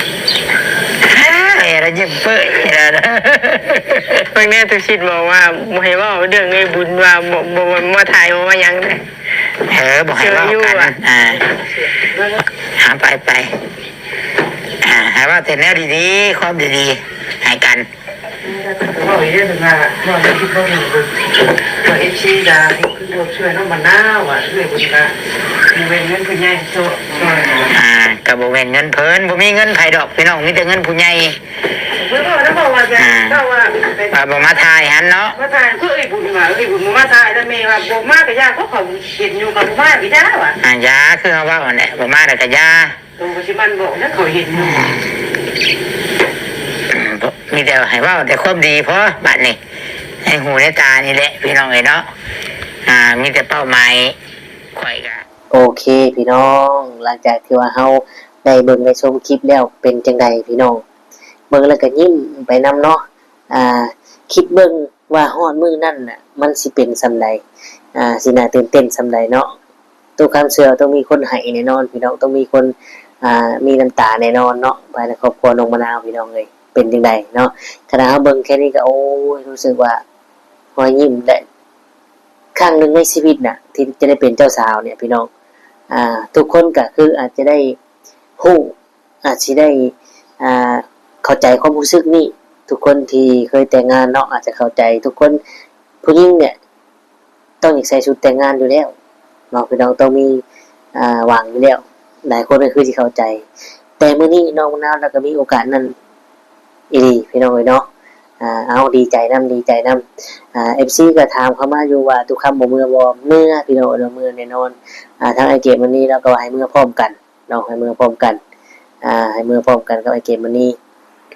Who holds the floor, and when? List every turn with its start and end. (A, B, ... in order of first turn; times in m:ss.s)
0:01.0-0:04.3 A
0:04.3-0:09.0 B
0:09.7-0:11.4 A
0:10.2-0:10.9 B
0:12.1-0:12.4 C
0:12.8-0:13.5 A
0:14.8-0:17.9 A
0:18.4-0:25.1 C
0:25.7-0:27.8 C
0:27.7-0:31.4 A
0:31.9-0:34.7 C
0:32.9-0:33.4 A
0:34.1-0:35.4 A
0:35.3-0:40.6 C
0:40.6-0:43.0 A
0:43.2-0:45.0 C
0:44.6-0:45.0 A
0:46.9-0:49.6 A
0:50.2-0:52.0 A
0:52.9-0:54.2 A
0:54.7-0:55.2 A
0:55.5-1:00.8 D
1:01.5-1:07.4 D
1:08.0-1:09.5 D
1:10.2-1:12.7 D
1:13.2-1:20.0 D
1:20.8-1:21.4 D
1:22.5-1:25.3 D
1:25.9-1:27.8 D
1:28.4-1:35.4 D
1:36.0-1:36.6 D
1:37.6-1:38.9 D
1:39.5-1:40.4 D
1:41.0-1:43.4 D
1:44.0-1:45.9 D
1:46.9-1:47.9 D
1:48.4-1:58.4 D
1:59.0-2:00.8 D